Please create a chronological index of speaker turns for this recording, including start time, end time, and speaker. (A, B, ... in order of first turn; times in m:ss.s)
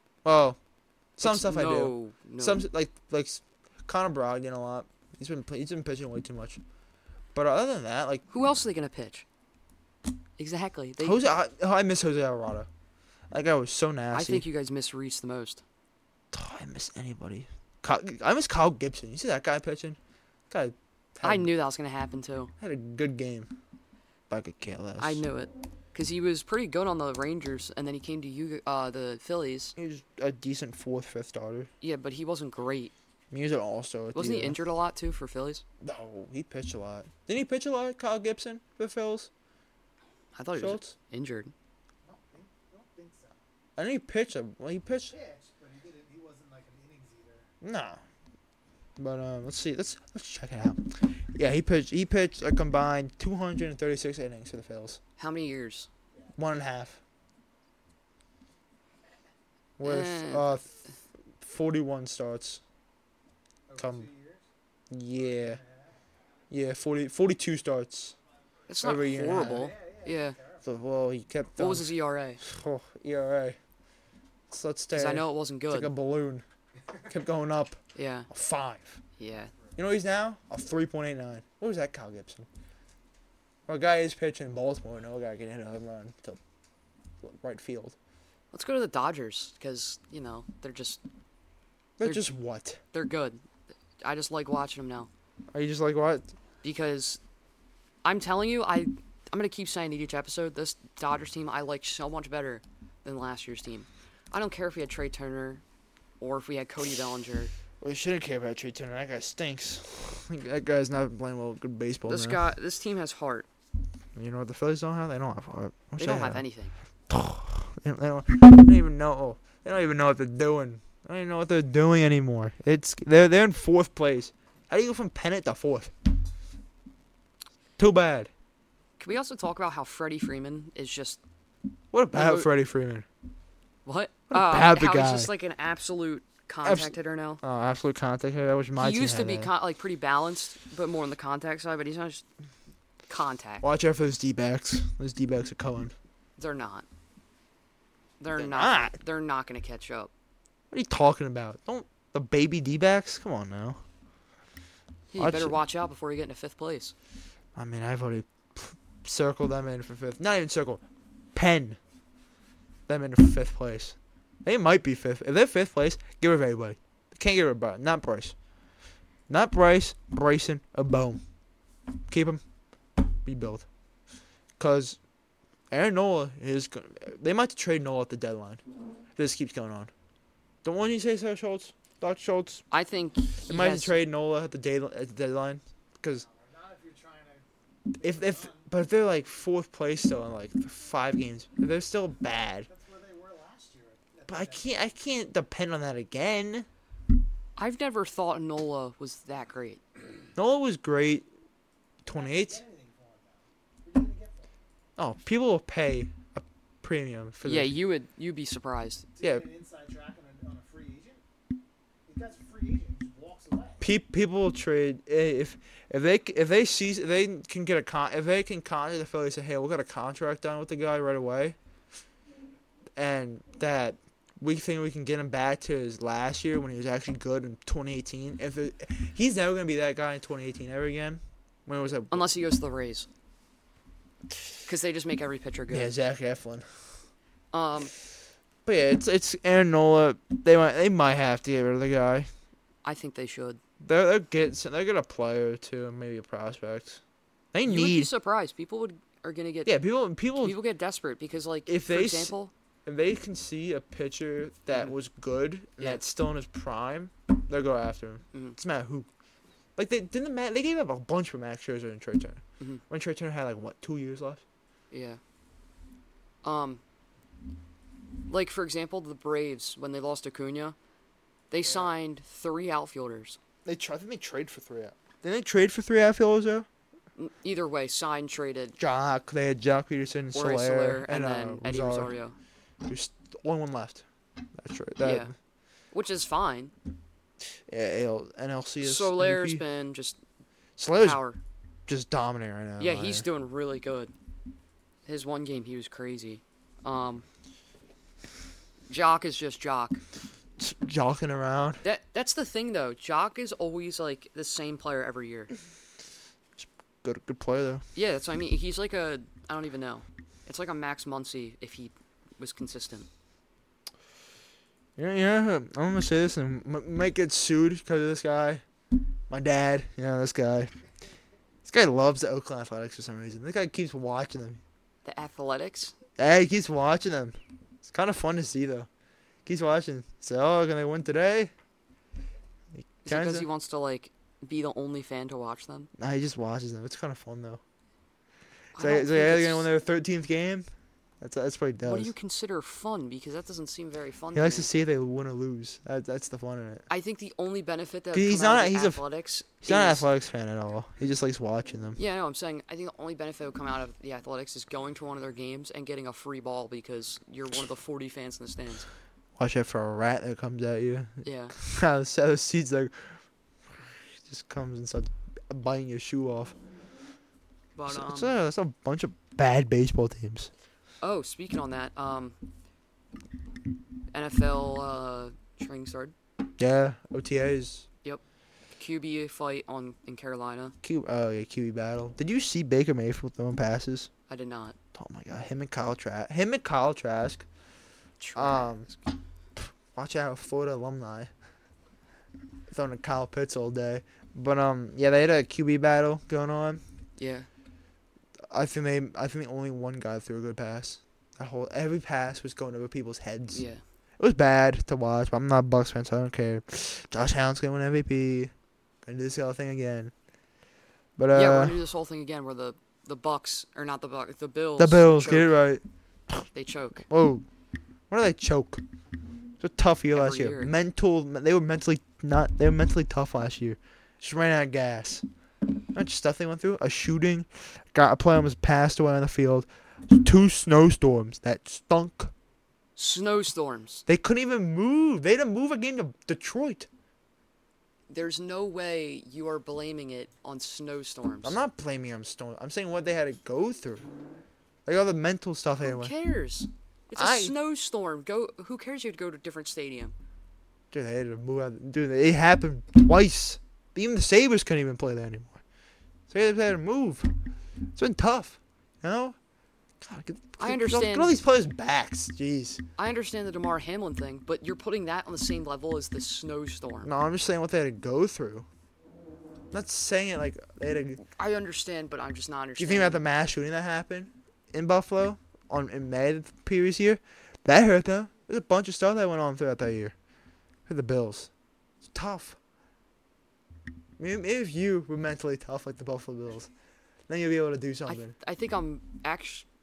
0:00.2-0:00.6 A
0:01.2-0:06.6 A
0:01.2-0:02.6 B
0:07.3-0:08.2 A
0:08.3-0:09.2 B
0:10.4-0:11.2 B
0:11.0-0:12.7 A
0:13.3-0:14.4 A
0:14.1-0:15.6 B
0:16.3-0:20.0 A
0:20.5-0:21.5 A
0:21.2-0:22.5 B
0:22.6-0:23.5 A
0:24.3-0:25.2 A
0:25.0-0:29.8 B
0:29.8-0:31.7 A
0:31.8-0:32.9 B
0:33.3-0:34.6 A
0:34.2-0:35.6 B
0:35.8-0:39.3 A
0:40.4-0:41.5 B
0:40.6-0:41.0 A
0:42.0-0:43.4 C
0:43.8-0:45.2 A
0:45.1-0:47.5 C
0:47.6-0:48.0 A
0:49.0-0:55.0 A
0:55.2-0:55.9 B
0:56.4-0:57.0 A
0:59.8-1:00.7 A
0:59.8-1:00.5 B
1:01.4-1:02.6 A
1:03.7-1:04.5 C
1:03.8-1:04.1 A
1:04.9-1:05.6 A
1:05.2-1:06.0 C
1:06.5-1:08.2 A
1:08.7-1:10.4 B
1:08.8-1:09.7 A
1:09.2-1:10.7 C
1:10.6-1:13.6 A
1:11.6-1:12.4 B
1:14.5-1:16.4 A
1:14.9-1:15.9 B
1:17.1-1:17.8 A
1:18.0-1:18.3 B
1:18.3-1:19.0 A
1:19.2-1:19.5 B
1:19.8-1:22.5 A
1:23.7-1:26.4 A
1:27.2-1:28.0 A
1:28.5-1:31.0 B
1:32.0-1:32.8 A
1:32.9-1:33.4 B
1:34.0-1:35.1 B
1:35.5-1:36.3 A
1:36.6-1:37.2 B
1:38.0-1:45.6 B
1:46.2-1:47.5 B
1:47.8-1:52.4 A
1:52.1-1:53.5 B
1:54.2-1:56.4 A
1:56.0-1:56.8 B
1:57.1-2:05.9 A
2:07.8-2:08.3 A
2:09.0-2:11.2 B
2:11.9-2:13.1 A
2:12.1-2:12.5 B
2:13.8-2:17.4 B
2:14.3-2:15.3 A
2:16.6-2:19.5 A
2:18.8-2:22.3 B
2:23.1-2:23.7 B
2:23.6-2:25.9 A
2:26.4-2:26.9 B
2:28.2-2:30.1 B
2:28.4-2:29.0 A
2:30.7-2:33.8 A
2:35.1-2:36.9 B
2:35.2-2:35.6 A
2:37.6-2:41.8 A
2:42.9-2:48.4 A
2:49.3-2:51.2 A
2:52.1-2:52.4 A
2:53.2-2:53.7 A
2:54.6-2:55.0 A
2:55.7-2:58.6 A
2:59.2-2:59.9 A
3:00.6-3:02.6 A
3:02.7-3:04.0 B
3:03.5-3:06.3 A
3:06.1-3:07.5 C
3:08.0-3:08.7 C
3:08.0-3:12.7 A
3:12.7-3:14.8 C
3:14.3-3:16.7 A
3:17.6-3:19.8 B
3:20.4-3:21.3 A
3:22.1-3:22.6 A
3:22.1-3:24.5 C
3:25.0-3:27.7 A
3:27.4-3:29.1 B
3:29.2-3:31.2 C
3:32.1-3:33.8 C
3:33.8-3:41.6 A
3:43.0-3:52.3 A
3:52.1-3:53.1 B
3:54.7-3:55.9 B
3:55.7-3:56.8 A
3:57.5-3:57.9 B
3:58.6-4:02.3 A
4:02.8-4:03.6 B
4:03.8-4:07.0 A
4:07.5-4:08.1 A
4:07.6-4:09.8 B
4:09.7-4:10.6 A
4:10.4-4:12.5 B
4:11.7-4:12.3 A
4:12.8-4:19.1 A
4:18.3-4:18.6 B
4:19.8-4:24.4 A
4:24.9-4:25.2 B
4:26.4-4:26.8 B
4:28.3-4:30.8 B
4:31.5-4:33.4 B
4:33.6-4:36.7 A
4:37.2-4:38.8 B
4:38.8-4:42.2 A
4:40.3-4:42.4 B
4:42.8-4:45.3 A
4:45.0-4:45.3 B
4:45.9-4:46.7 B
4:47.7-4:49.6 A
4:48.8-4:50.2 B
4:50.8-4:51.2 A
4:51.0-4:51.4 B
4:51.9-4:53.3 A
4:52.8-4:54.1 B
4:55.1-4:57.3 B
4:58.9-5:00.0 B
5:00.6-5:01.8 A
5:01.8-5:05.5 B
5:06.6-5:07.8 A
5:08.0-5:13.1 B
5:15.0-5:18.6 A
5:19.3-5:20.7 A
5:21.6-5:24.6 A
5:25.0-5:26.0 B
5:26.2-5:28.9 A
5:29.5-5:31.5 A
5:32.8-5:33.5 A
5:33.0-5:35.9 B
5:36.0-5:37.6 A
5:38.8-5:39.7 B
5:38.8-5:40.7 A
5:41.2-5:42.1 A
5:41.8-5:44.7 B
5:44.3-5:46.9 A
5:46.9-5:50.0 B
5:48.1-5:49.0 A
5:49.6-5:52.0 A
5:52.0-5:58.9 B
5:59.4-6:03.2 A
6:01.2-6:01.6 B
6:03.7-6:06.6 A
6:07.8-6:08.3 B
6:07.9-6:10.5 A
6:11.0-6:12.4 B
6:14.1-6:16.1 B
6:16.6-6:17.9 A
6:18.7-6:20.8 B
6:20.8-6:24.1 A
6:24.3-6:24.8 B
6:25.0-6:27.5 A
6:28.2-6:29.0 B
6:28.4-6:28.9 A
6:29.6-6:31.3 A
6:32.7-6:36.8 A
6:37.2-6:37.5 B
6:38.5-6:43.6 A
6:43.5-6:43.8 B
6:44.2-6:48.5 A
6:49.0-6:50.1 A
6:51.2-6:51.8 A
6:51.3-6:55.5 B
6:54.8-6:56.5 A
6:56.5-6:57.1 B
6:57.1-6:57.4 A
6:58.1-6:58.8 A
6:59.6-7:05.2 A
7:00.1-7:00.7 B
7:05.9-7:12.3 A
7:13.0-7:14.0 B
7:14.1-7:16.9 A
7:18.1-7:21.6 B
7:21.4-7:24.1 A
7:24.9-7:26.1 A
7:25.8-7:30.2 B
7:27.2-7:27.6 A
7:30.9-7:35.6 A
7:36.3-7:37.3 A
7:38.0-7:39.4 A
7:40.0-7:42.8 A
7:40.6-7:41.4 B
7:43.0-7:47.1 B
7:47.0-7:48.7 A
7:49.7-7:51.2 A
7:51.3-7:53.2 B
7:52.8-8:00.1 A
8:00.9-8:01.5 A
8:02.0-8:02.6 A
8:04.2-8:06.7 A
8:07.3-8:08.3 A
8:08.1-8:09.7 B